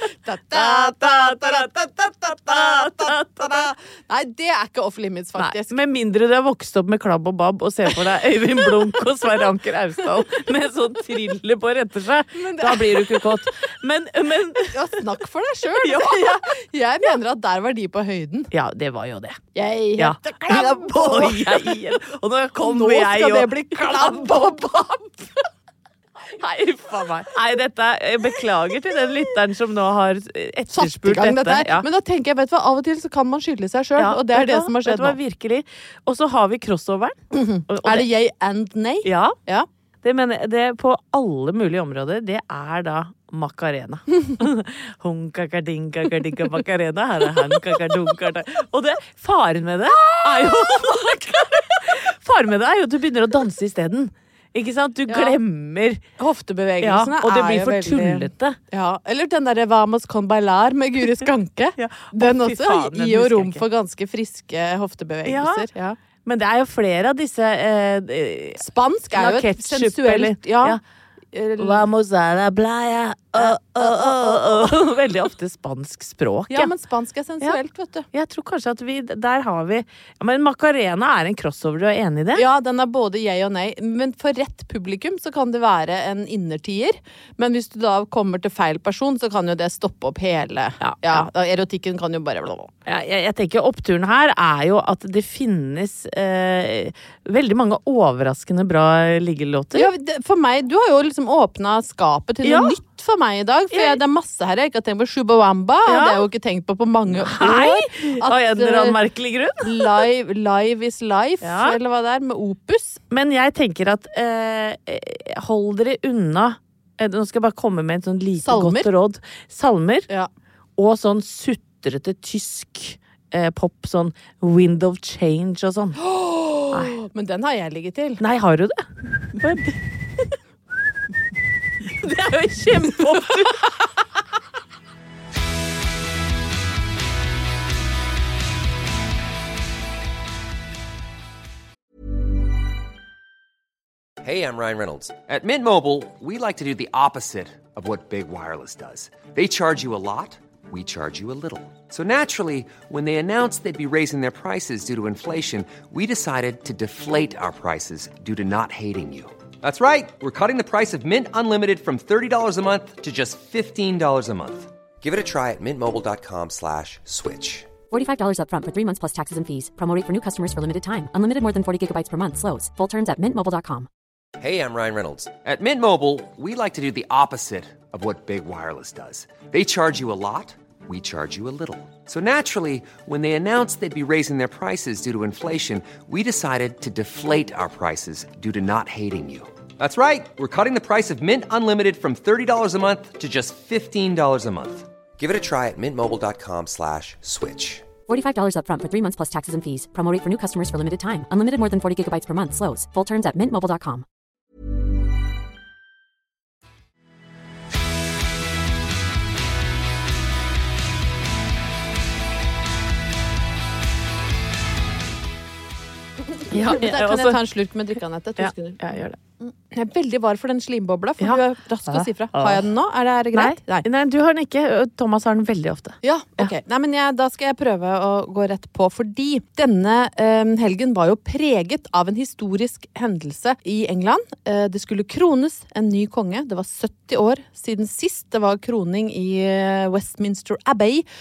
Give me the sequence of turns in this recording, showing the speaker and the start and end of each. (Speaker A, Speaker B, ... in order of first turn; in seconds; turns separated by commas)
Speaker A: 0.2-5.7, Speaker B: 0.5-1.7, Speaker B: 2.3-3.7, Speaker B: 5.4-15.0, Speaker A: 12.3-13.4, Speaker A: 14.6-18.5, Speaker B: 15.7-16.5, Speaker B: 18.5-19.4, Speaker A: 19.5-21.8, Speaker B: 20.0-24.5, Speaker A: 22.6-25.4, Speaker B: 26.3-31.9, Speaker A: 30.7-35.2, Speaker B: 34.0-38.0, Speaker A: 37.3-39.7, Speaker B: 39.0-39.4, Speaker B: 40.0-56.0, Speaker A: 50.1-51.1, Speaker A: 55.1-55.4, Speaker A: 56.2-66.0, Speaker B: 56.8-58.6, Speaker B: 61.8-63.6, Speaker B: 65.2-65.7, Speaker B: 66.2-70.8, Speaker A: 68.6-70.8, Speaker A: 71.3-71.8, Speaker B: 71.6-76.7, Speaker A: 73.3-74.8, Speaker A: 76.5-78.1, Speaker B: 78.1-82.4, Speaker A: 82.3-92.7, Speaker B: 90.8-91.3, Speaker B: 92.8-99.9, Speaker A: 99.7-109.0, Speaker B: 102.4-102.8, Speaker B: 103.7-104.0, Speaker B: 105.8-106.2, Speaker B: 107.1-109.9, Speaker A: 109.6-113.0, Speaker B: 111.4-111.8, Speaker B: 113.1-120.1, Speaker A: 118.4-118.9, Speaker B: 120.8-126.0, Speaker A: 126.0-128.2, Speaker B: 128.2-130.3, Speaker B: 131.8-133.7, Speaker C: 144.2-167.7, Speaker D: 167.9-173.9, Speaker C: 174.4-197.8, Speaker D: 198.1-204.0, Speaker A: 216.3-218.8, Speaker B: 216.5-217.4, Speaker B: 218.4-219.2, Speaker A: 219.4-223.9, Speaker B: 221.2-222.7, Speaker B: 223.3-226.5, Speaker A: 226.0-241.1